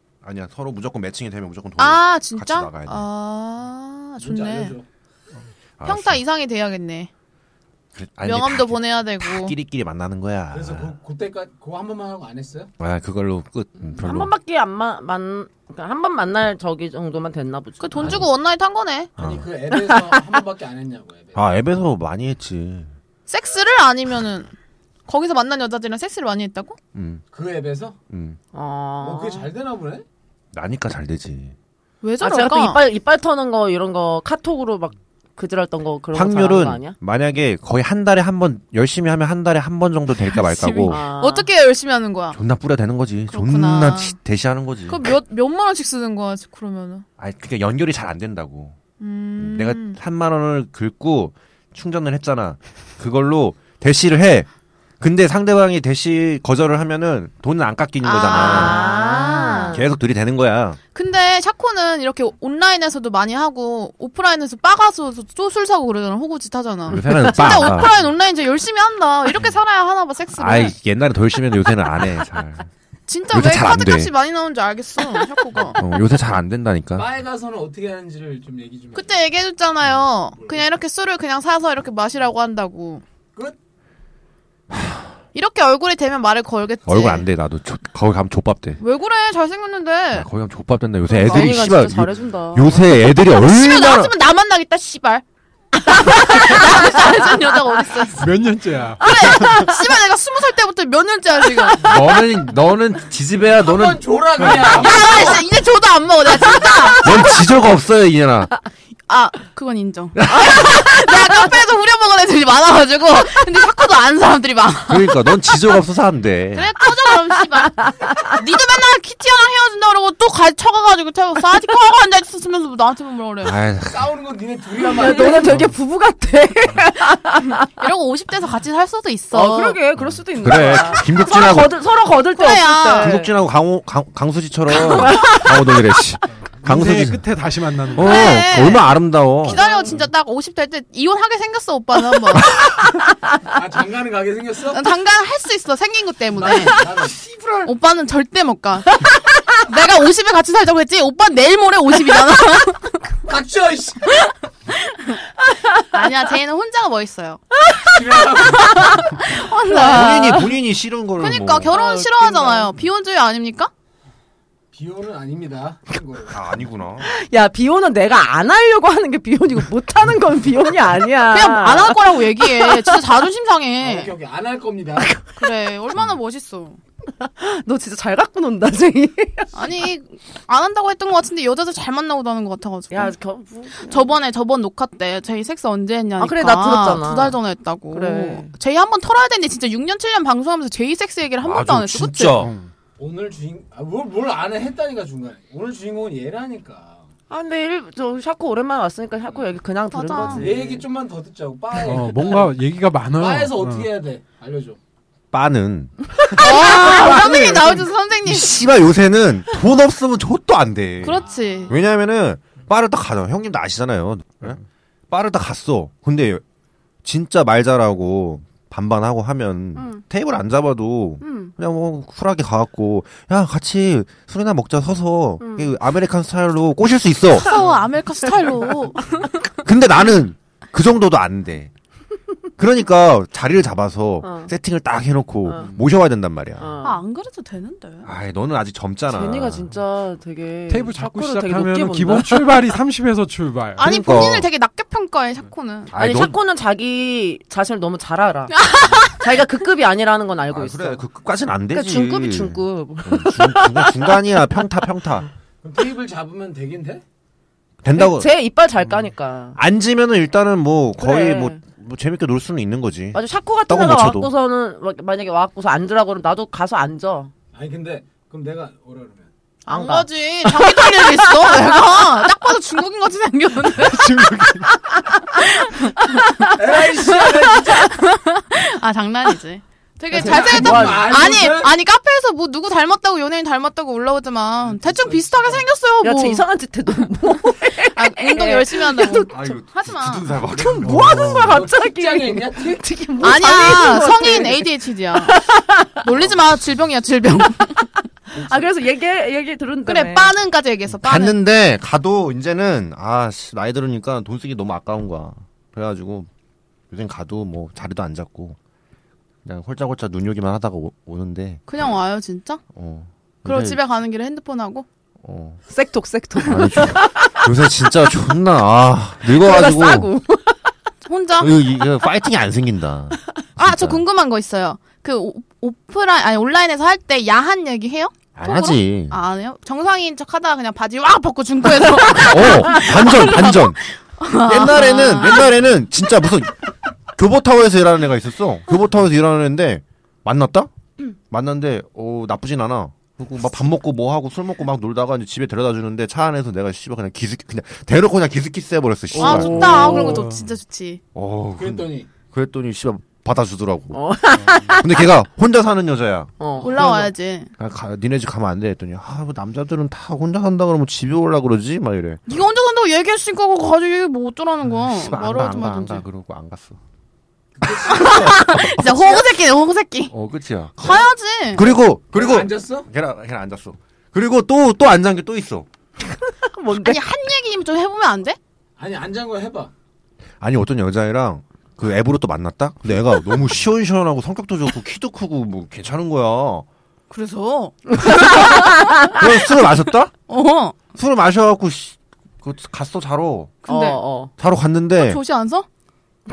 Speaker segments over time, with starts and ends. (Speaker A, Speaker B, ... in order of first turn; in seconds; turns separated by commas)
Speaker A: 0.2-3.0, Speaker B: 1.8-4.7, Speaker C: 4.2-4.8, Speaker A: 5.8-6.2, Speaker B: 5.8-7.1, Speaker A: 7.9-10.9, Speaker B: 8.2-9.6, Speaker C: 10.5-12.7, Speaker A: 12.8-14.3, Speaker D: 14.0-18.2, Speaker B: 17.8-19.1, Speaker A: 18.0-18.2, Speaker A: 19.2-19.5, Speaker C: 19.2-21.5, Speaker A: 21.3-22.9, Speaker B: 23.3-24.5, Speaker B: 25.1-26.8, Speaker A: 26.9-27.2, Speaker C: 27.3-28.0, Speaker A: 28.1-28.4, Speaker D: 28.5-29.5, Speaker C: 29.0-30.1, Speaker A: 30.5-31.5, Speaker B: 32.0-32.8, Speaker D: 32.2-37.0, Speaker A: 36.1-41.0, Speaker B: 40.2-42.4, Speaker D: 40.9-41.5, Speaker A: 42.3-45.1, Speaker B: 43.3-44.2, Speaker B: 44.9-47.0, Speaker A: 47.2-48.8, Speaker B: 49.0-50.0, Speaker A: 49.4-54.5, Speaker A: 55.0-58.9, Speaker B: 58.0-59.8, Speaker D: 58.2-59.8, Speaker A: 59.7-60.8, Speaker B: 60.9-70.8, Speaker A: 66.9-67.9, Speaker A: 70.4-72.7, Speaker B: 73.1-75.8, Speaker A: 73.3-74.1, Speaker A: 75.8-77.1, Speaker C: 76.9-79.2, Speaker B: 78.9-83.0, Speaker C: 80.3-80.7, Speaker A: 84.7-85.0, Speaker B: 85.3-87.2, Speaker A: 86.9-88.8, Speaker B: 88.8-90.3, Speaker A: 90.1-94.1, Speaker D: 91.1-92.8, Speaker B: 93.3-95.2, Speaker B: 95.8-98.3, Speaker D: 95.9-97.8, Speaker E: 98.2-99.7, Speaker B: 99.0-101.9, Speaker A: 101.8-105.2, Speaker C: 103.5-105.5, Speaker B: 104.6-107.4, Speaker A: 107.0-108.5, Speaker B: 109.1-115.3, Speaker A: 110.2-110.8, Speaker A: 114.9-116.7, Speaker B: 116.5-123.5, Speaker D: 117.8-118.1, Speaker A: 123.4-124.1, Speaker C: 123.8-125.6, Speaker D: 124.9-127.7, Speaker B: 127.8-129.8, Speaker D: 129.3-133.3, Speaker A: 130.4-131.7, Speaker B: 132.3-133.2, Speaker A: 133.0-137.2, Speaker D: 134.8-135.7, Speaker E: 136.6-138.4, Speaker A: 137.9-139.6, Speaker B: 138.0-138.9, Speaker B: 139.4-142.6, Speaker D: 139.5-140.0, Speaker C: 143.5-144.9, Speaker B: 144.7-146.8, Speaker C: 146.3-147.7, Speaker B: 147.6-153.0, Speaker C: 153.2-154.2, Speaker B: 154.7-155.2, Speaker B: 155.9-157.4, Speaker C: 157.8-159.1, Speaker D: 158.5-160.4, Speaker B: 158.6-160.5, Speaker A: 159.8-161.7, Speaker B: 161.2-163.7, Speaker D: 161.7-162.7, Speaker C: 164.7-166.7, Speaker A: 166.3-167.1, Speaker D: 167.0-172.0, Speaker B: 171.3-174.1, Speaker D: 172.6-172.9, Speaker C: 173.8-175.1, Speaker B: 175.4-176.8, Speaker D: 177.2-179.5, Speaker B: 179.5-183.1, Speaker D: 182.9-184.1, Speaker B: 183.8-192.4, Speaker D: 186.2-187.4, Speaker D: 187.9-188.5, Speaker A: 191.4-192.5, Speaker E: 192.3-192.7, Speaker C: 193.0-197.1, Speaker D: 197.3-200.8, Speaker B: 199.9-200.5, Speaker C: 200.3-202.6, Speaker E: 201.8-203.9, Speaker C: 203.1-204.8, Speaker A: 205.3-216.4, Speaker B: 206.3-208.7, Speaker B: 211.0-211.8, Speaker C: 211.1-211.7, Speaker A: 217.0-227.6, Speaker D: 219.8-220.0, Speaker D: 221.2-221.5, Speaker D: 225.4-225.7, Speaker B: 227.3-229.4, Speaker A: 229.6-231.7, Speaker A: 232.6-236.7, Speaker D: 234.2-234.5, Speaker D: 235.4-235.7, Speaker D: 236.6-237.0, Speaker B: 236.8-238.1, Speaker A: 238.0-239.7, Speaker D: 239.1-242.5, Speaker E: 240.7-243.9, Speaker B: 243.8-245.9, Speaker A: 243.8-244.5, Speaker A: 245.9-246.4, Speaker D: 245.9-251.0, Speaker B: 248.5-249.2, Speaker A: 250.5-255.3, Speaker D: 251.7-254.2, Speaker C: 255.6-257.0, Speaker A: 257.8-258.3, Speaker D: 257.9-259.6, Speaker A: 259.6-264.3, Speaker D: 261.0-261.6, Speaker D: 263.1-267.3, Speaker C: 267.5-269.3, Speaker B: 269.6-274.4, Speaker D: 269.7-271.9, Speaker E: 273.8-274.7, Speaker B: 275.4-276.5, Speaker C: 276.6-277.9, Speaker B: 277.9-286.4, Speaker C: 280.1-281.7, Speaker D: 280.1-281.1, Speaker C: 284.6-285.6, Speaker D: 286.0-289.3, Speaker B: 287.9-290.2, Speaker A: 289.3-291.2, Speaker C: 290.5-292.8, Speaker D: 290.8-296.0, Speaker E: 290.8-291.5, Speaker B: 293.2-295.4, Speaker B: 296.0-297.9, Speaker D: 298.3-300.3, Speaker B: 299.9-301.4, Speaker A: 301.0-306.3, Speaker A: 306.9-308.6, Speaker A: 309.4-311.6, Speaker B: 311.7-312.6, Speaker A: 312.7-313.8, Speaker B: 313.4-314.9, Speaker A: 315.2-315.6, Speaker D: 315.7-317.4, Speaker A: 316.4-320.1, Speaker D: 319.3-320.7, Speaker B: 321.1-321.5, Speaker A: 321.4-324.0, Speaker B: 323.6-335.6, Speaker A: 328.3-329.1, Speaker A: 332.1-333.8, Speaker A: 334.3-340.7, Speaker A: 341.3-350.1, Speaker D: 349.1-350.3, Speaker B: 349.2-351.0, Speaker E: 350.0-350.4, Speaker A: 351.1-354.0, Speaker C: 351.5-352.1, Speaker D: 353.9-355.1, Speaker E: 354.4-354.7, Speaker A: 354.8-356.3, Speaker D: 356.4-357.1, Speaker B: 356.6-357.5, Speaker A: 357.6-362.2, Speaker B: 362.3-366.0, Speaker A: 364.9-366.8, Speaker C: 367.6-368.1, Speaker A: 367.6-369.1, Speaker B: 367.9-370.1, Speaker A: 370.1-375.7, Speaker B: 370.8-371.7, Speaker C: 372.1-372.9, Speaker D: 376.2-377.0, Speaker B: 376.7-378.4, Speaker C: 378.8-379.7, Speaker A: 380.4-386.6, Speaker B: 387.1-388.7, Speaker D: 388.0-389.1, Speaker A: 388.2-390.1, Speaker B: 390.3-390.8, Speaker A: 390.9-393.6, Speaker B: 393.6-394.0, Speaker D: 393.7-394.3, Speaker A: 394.4-395.2, Speaker B: 395.0-395.6